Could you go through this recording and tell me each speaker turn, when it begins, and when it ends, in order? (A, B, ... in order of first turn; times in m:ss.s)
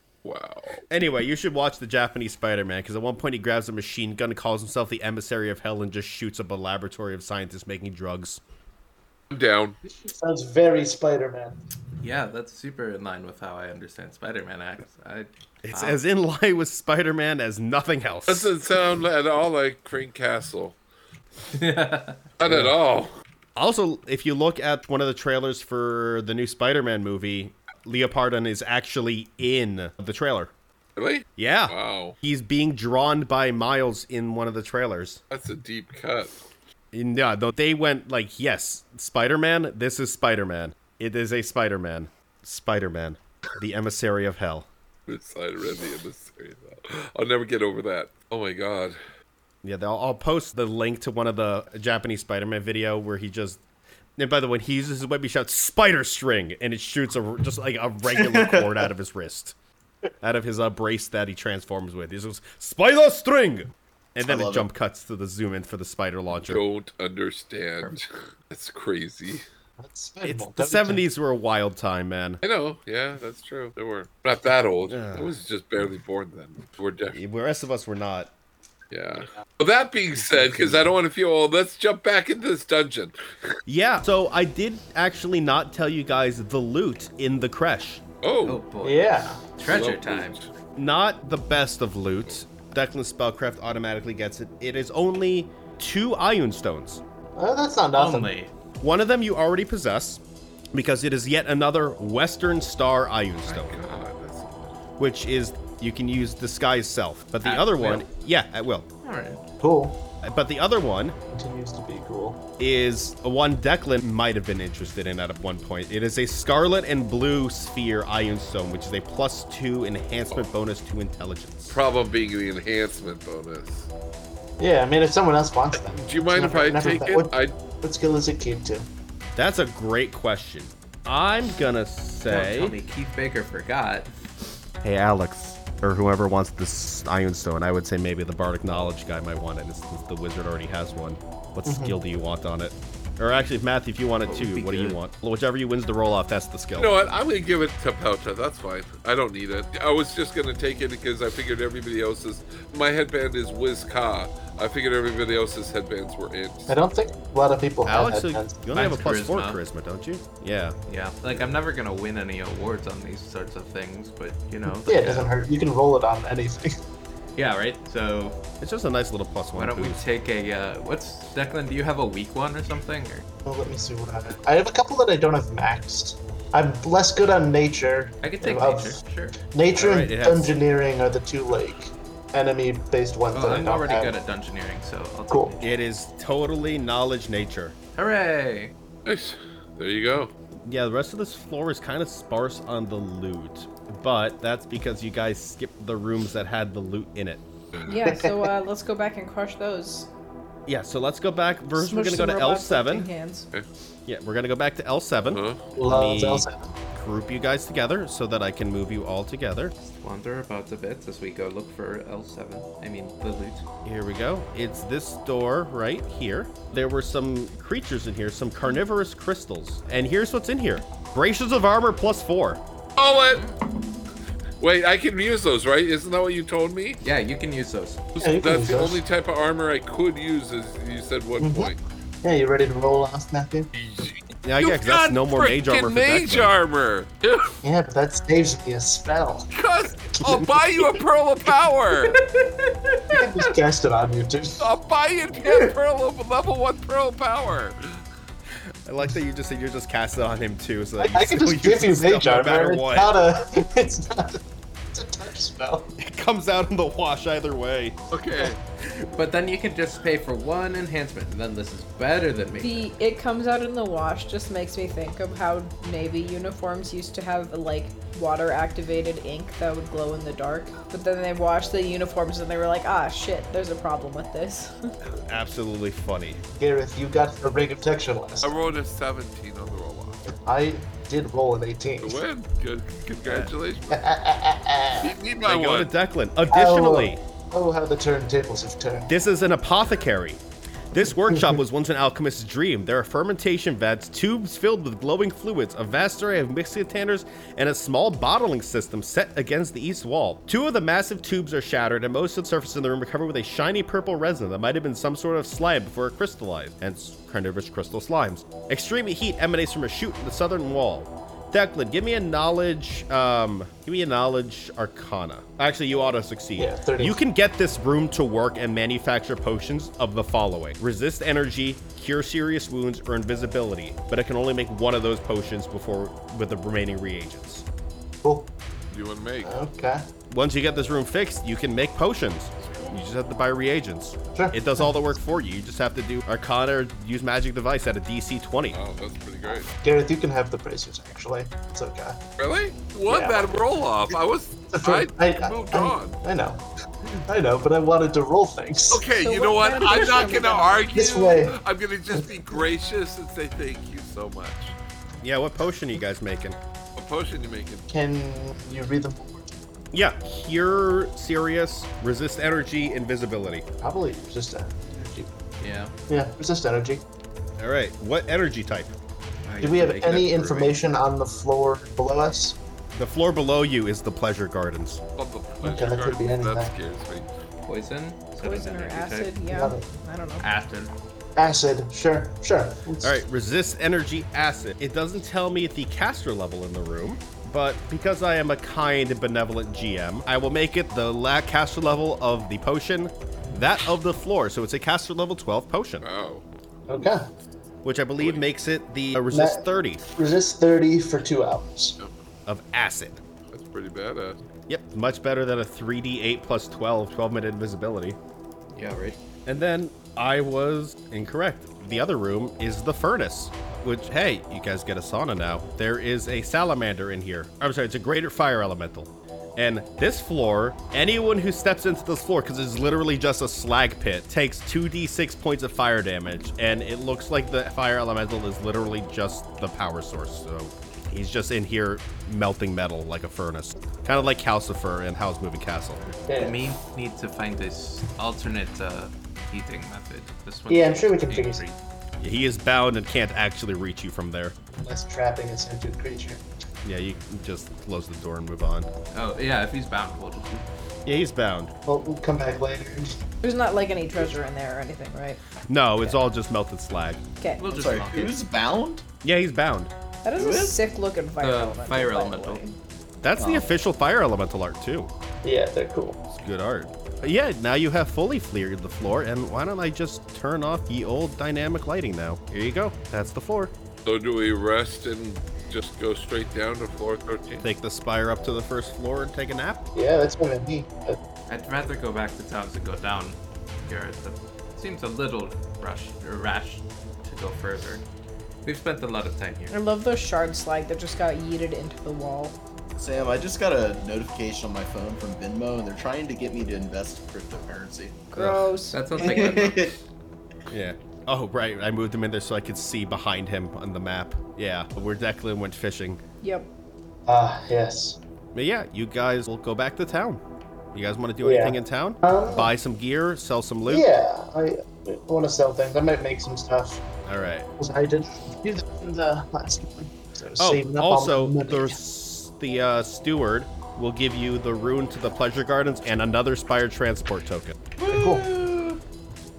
0:00.2-0:00.8 A
0:00.9-0:08.4 B
0:09.3-0:09.8 A
0:10.0-0:11.6 C
0:12.0-0:16.0 D
0:15.6-0:18.5 B
0:18.3-0:20.8 A
0:21.5-0:22.3 D
0:22.4-0:23.1 A
0:22.4-0:22.7 B
0:23.6-0:30.5 B
0:31.0-0:32.1 A
0:31.4-0:35.2 B
0:35.3-0:36.4 A
0:36.9-0:44.7 B
0:45.1-0:49.0 A
0:49.6-0:53.6 B
0:54.2-0:59.5 B
0:58.1-0:58.6 E
1:00.2-1:06.6 B
1:04.2-1:04.7 E
1:06.5-1:09.4 A
1:09.8-1:11.0 C
1:10.2-1:12.4 B
1:12.4-1:17.2 A
1:14.9-1:15.4 B
1:17.1-1:18.3 B
1:18.9-1:23.5 A
1:20.2-1:20.8 B
1:23.7-1:28.0 B
1:28.2-1:28.6 A
1:28.4-1:30.4 D
1:28.8-1:29.4 C
1:29.6-1:30.5 A
1:30.8-1:37.0 B
1:37.4-1:38.3 C
1:37.9-1:38.5 D
1:38.8-1:40.2 B
1:40.7-1:43.8 B
1:43.4-1:44.8 A
1:45.0-1:48.9 B
1:47.4-1:48.1 D
1:49.0-1:49.4 D
1:49.6-1:50.0 C
1:50.2-1:51.2 B
1:51.3-1:52.4 C
1:52.6-2:01.8 B
2:01.7-2:03.9 A
2:04.6-2:08.9 C
2:05.9-2:07.6 A
2:09.4-2:12.8 B
2:12.3-2:14.1 D
2:14.8-2:26.9 B
2:21.6-2:22.0 C
2:24.2-2:25.0 D
2:26.8-2:36.8 A
2:36.7-2:38.7 C
2:37.8-2:40.8 B
2:38.7-2:39.6 D
2:40.9-2:45.3 D
2:44.7-2:46.8 C
2:47.4-2:48.4 D
2:48.6-2:50.0 B
2:49.5-2:53.2 D
2:53.4-3:04.2 C
2:58.2-2:59.4 D
2:59.7-3:00.6 B
3:03.3-3:05.7 D
3:05.3-3:05.5 C
3:05.6-3:07.7 B
3:07.9-3:08.7 D
3:09.0-3:10.3 A
3:10.6-3:17.4 B
3:17.8-3:20.1 F
3:18.0-3:18.5 C
3:20.7-3:23.1 B
3:21.7-3:23.5 F
3:24.0-3:29.7 B
3:25.3-3:25.6 A
3:25.8-3:26.7 C
3:29.8-3:33.6 D
3:33.8-3:42.6 B
3:43.0-3:43.4 A
3:43.3-3:43.6 D
3:44.6-3:47.0 A
3:47.0-3:48.1 D
3:48.1-3:51.8 A
3:48.2-3:49.0 C
3:51.4-3:53.7 C
3:53.7-3:57.5 A
3:54.4-3:56.5 B
3:57.6-3:59.5 C
3:59.5-4:02.2 A
4:00.1-4:00.6 C
4:03.1-4:04.7 C
4:04.6-4:07.8 A
4:08.8-4:13.1 B
4:11.0-4:14.4 C
4:14.9-4:15.9 C
4:16.0-4:18.0 B
4:18.1-4:18.6 A
4:19.1-4:22.9 D
4:22.6-4:34.9 F
4:35.0-4:36.4 B
4:36.6-4:38.5 C
4:38.4-4:40.2 A
4:40.3-4:42.2 C
4:42.0-4:44.0 A
4:43.9-4:45.1 C
4:45.0-4:45.9 A
4:45.4-4:47.2 B
4:46.5-4:49.1 C
4:49.1-4:50.4 B
4:50.9-5:27.6 B
4:51.3-4:51.6 C
5:16.6-5:17.2 C
5:28.2-5:28.5 C
5:28.9-5:29.5 A
5:29.4-5:30.0 C
5:30.3-5:38.8 B
5:32.6-5:33.0 A
5:34.4-5:34.9 C
5:38.7-5:39.7 A
5:39.5-5:42.2 C
5:42.4-5:46.2 A
5:43.1-5:43.5 C
5:44.7-5:49.0 C
5:48.9-5:54.8 A
5:49.2-5:50.9 F
5:50.9-5:51.6 C
5:52.1-5:52.6 C
5:55.2-5:56.6 B
5:57.0-5:57.8 A
5:57.9-5:59.5 C
5:59.9-6:03.6 B
6:03.8-6:05.4 C
6:05.6-6:05.9 D
6:06.1-6:07.0 C
6:07.6-6:08.9 B
6:09.4-6:10.8 D
6:09.6-6:12.6 C
6:12.9-6:15.0 B
6:15.2-6:17.3 A
6:15.6-6:16.7 C
6:17.6-6:19.5 D
6:18.4-6:20.5 F
6:19.5-6:19.8 C
6:20.4-6:20.9 D
6:21.4-6:23.2 C
6:23.0-6:36.1 B
6:36.0-6:36.4 A
6:36.9-6:37.3 C
6:37.8-6:40.0 B
6:38.2-6:38.4 A
6:39.3-6:42.0 C
6:42.4-6:43.2 B
6:43.5-6:44.4 A
6:44.7-6:48.2 B
6:48.7-6:49.2 D
6:49.4-7:16.2 B
7:16.3-7:16.8 C
7:16.4-7:21.8 D
7:20.7-7:21.6 C
7:22.2-7:24.5 B
7:24.8-7:26.4 C
7:26.8-7:28.9 B
7:29.1-7:30.6 D
7:31.0-7:31.7 B
7:31.8-7:33.2 C
7:33.4-7:35.4 F
7:35.7-7:37.2 B
7:37.6-7:38.4 D
7:37.7-7:39.0 E
7:39.2-7:39.9 B
7:40.2-7:42.7 F
7:40.4-7:40.8 E
7:41.4-7:42.6 D
7:43.2-7:45.1 B
7:43.4-7:43.7 E
7:45.4-7:46.2 C
7:46.3-7:53.7 B
7:54.0-7:57.6 A
7:57.6-7:59.9 B
7:59.9-8:01.2 C
8:01.5-8:08.0 D
8:08.6-8:09.8 D
8:09.7-8:12.6 F
8:13.0-8:18.2 E
8:18.3-8:19.5 F
8:18.4-8:18.7 B
8:18.9-8:19.9 D
8:19.2-8:19.9 E
8:20.7-8:26.2 B
8:26.4-8:26.7 F
8:27.2-8:28.2 C
8:28.5-8:34.1 B
8:31.4-8:32.7 C
8:33.9-8:37.0 C
8:37.2-8:37.7 B
8:37.8-8:42.0 C
8:40.6-8:47.8 B
8:48.0-8:49.0 E
8:48.1-8:48.5 C